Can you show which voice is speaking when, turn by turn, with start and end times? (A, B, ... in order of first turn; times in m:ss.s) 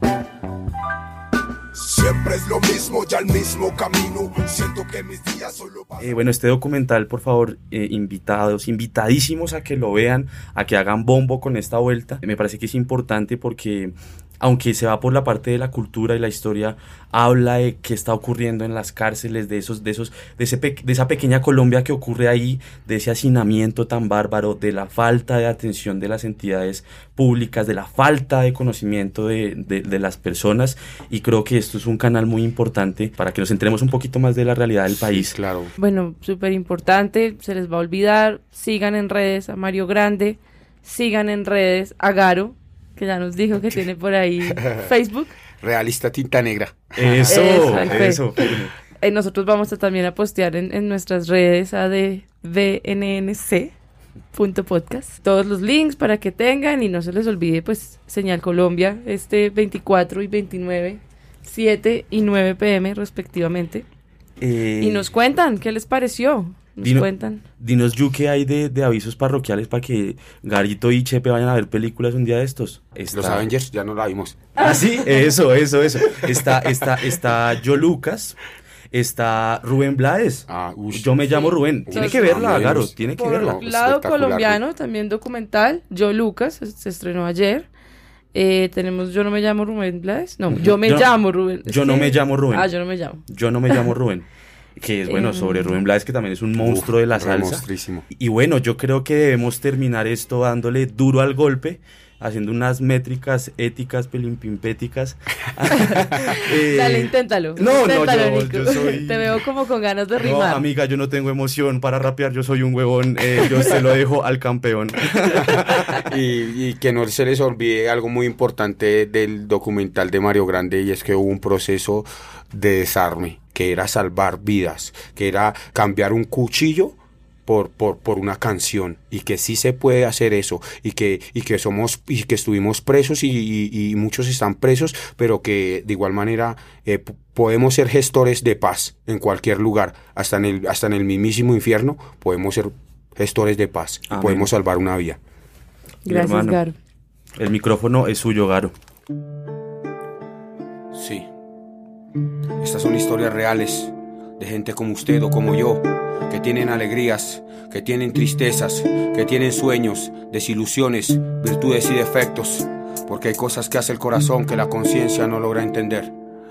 0:01.7-0:06.1 A
0:06.0-0:35.4 B
0:35.1-0:35.7 C
0:35.8-0:45.3 D
0:44.6-0:44.8 C
0:45.6-0:48.1 C
0:46.9-0:48.7 B
0:47.3-0:48.2 D
0:49.0-0:53.7 D
0:54.3-1:03.8 D
1:04.4-1:05.0 B
1:04.8-1:07.4 D
1:06.8-1:13.5 B
1:13.1-1:14.4 C
1:14.6-1:18.4 B
1:14.6-1:14.8 D
1:18.9-1:23.6 B
1:20.5-1:24.6 C
1:21.9-1:27.7 D
1:28.3-1:33.8 D
1:30.5-1:31.1 B
1:31.6-1:32.7 B
1:33.3-1:34.2 B
1:34.8-1:49.4 B
1:35.1-1:35.8 D
1:36.6-1:38.0 C
1:45.8-1:50.6 D
1:50.2-1:56.0 B
1:56.0-2:25.2 C
2:24.1-2:24.5 B
2:26.0-2:26.7 D
2:26.0-2:26.6 B
2:27.4-2:28.7 B
2:30.9-2:31.3 C
2:32.6-2:46.1 C